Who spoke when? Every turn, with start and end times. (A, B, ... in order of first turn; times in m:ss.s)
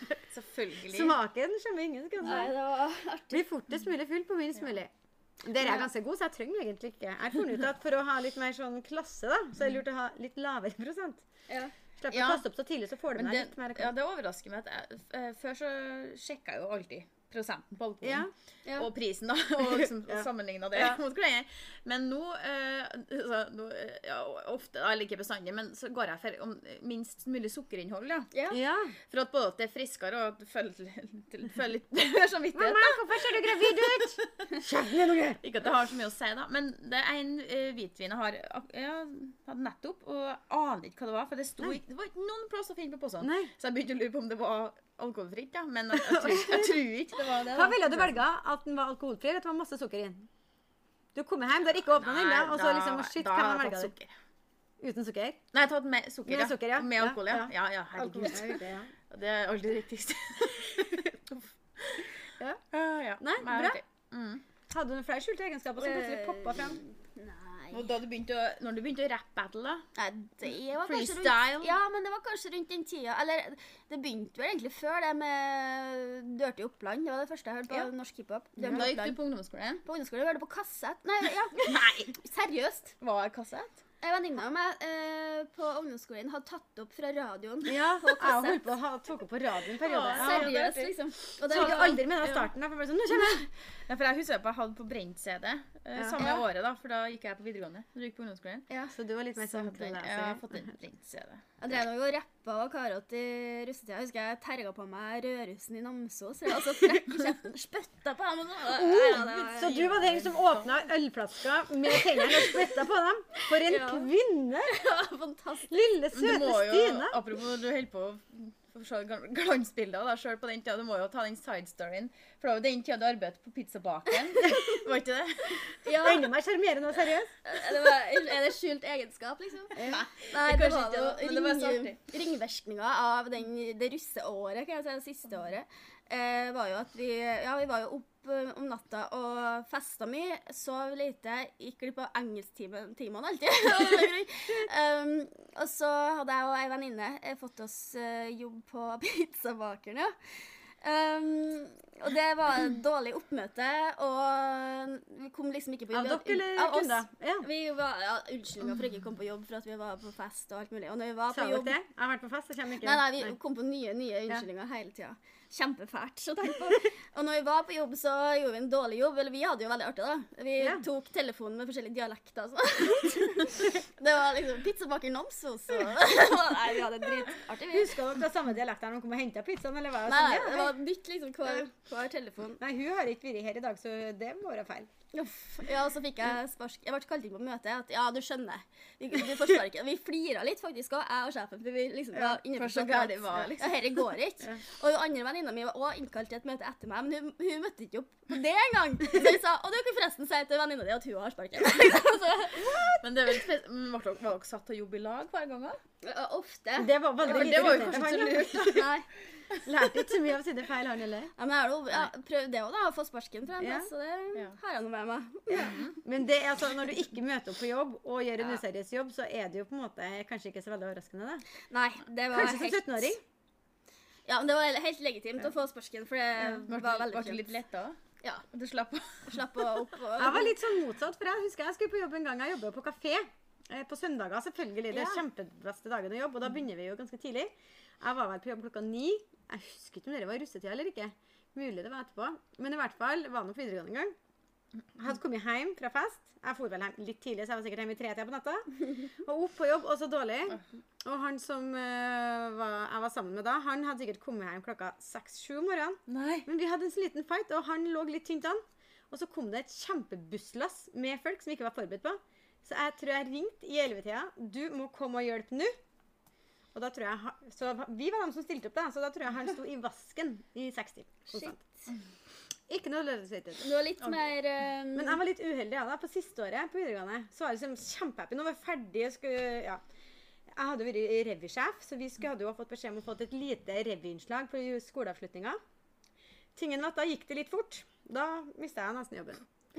0:00.3-0:01.2 A
0:00.9-0:02.5 B
0:02.2-0:03.4 C
0:03.3-0:04.9 B
0:05.4-0:11.2 B
0:05.6-0:05.9 C
0:12.0-0:13.9 B
0:12.1-0:12.4 A
0:13.2-0:28.3 A
0:18.0-0:18.3 B
0:19.6-0:21.0 B
0:28.3-0:28.6 C
0:28.5-0:29.0 B
0:29.1-0:34.3 A
0:32.5-0:35.4 B
0:35.4-0:48.2 A
0:43.2-0:43.5 B
0:46.0-0:46.8 B
0:47.5-0:50.3 B
0:51.2-0:53.9 B
0:52.0-0:54.1 A
0:54.8-0:55.4 B
0:55.5-1:02.2 A
0:56.3-0:58.9 B
1:02.7-1:04.4 A
1:03.2-1:03.8 B
1:04.7-1:06.8 B
1:05.8-1:07.9 C
1:07.7-1:09.9 A
1:10.0-1:19.2 C
1:10.7-1:11.8 A
1:18.6-1:18.9 B
1:18.6-1:19.8 A
1:19.8-1:22.9 C
1:21.6-1:22.1 A
1:23.0-1:23.8 A
1:24.0-1:28.6 C
1:27.7-1:30.5 B
1:29.8-1:32.5 A
1:30.1-1:32.0 C
1:31.5-1:33.5 B
1:33.1-1:38.7 A
1:36.0-1:36.4 B
1:38.9-1:40.6 B
1:39.4-1:41.4 A
1:41.6-1:49.9 C
1:48.7-1:54.8 B
1:49.5-1:50.7 A
1:52.1-1:52.5 C
1:53.4-1:54.1 C
1:54.7-1:55.7 C
1:55.7-1:57.2 B
1:56.1-2:05.8 A
2:05.8-2:06.3 C
2:06.0-2:07.3 B
2:07.4-2:30.1 C
2:09.8-2:10.0 B
2:09.8-2:12.0 A
2:30.8-2:41.8 C
2:35.9-2:37.5 B
2:41.3-2:43.3 B
2:42.8-2:58.0 C
2:50.6-2:50.8 B
2:57.7-3:00.7 B
3:00.1-3:02.6 C
3:02.6-3:04.9 B
3:05.1-3:22.9 C
3:12.2-3:13.8 A
3:23.0-3:25.8 A
3:26.0-3:29.1 C
3:26.8-3:28.8 B
3:27.2-3:28.9 A
3:29.6-3:31.3 B
3:31.4-3:35.8 C
3:33.6-3:33.9 B
3:35.5-3:41.4 B
3:35.6-3:36.0 A
3:41.7-3:43.1 C
3:42.3-3:43.2 B
3:44.3-3:47.5 C
3:46.7-3:48.0 A
3:48.5-3:49.6 A
3:49.3-3:50.6 C
3:50.2-4:04.1 B
3:54.9-3:55.2 C
4:05.0-4:25.7 B
4:16.1-4:16.5 A
4:26.7-4:31.6 B
4:31.3-4:31.6 C
4:32.7-4:33.6 B
4:33.6-4:35.2 C
4:35.0-4:39.8 B
4:40.5-4:45.6 B
4:46.6-4:49.4 B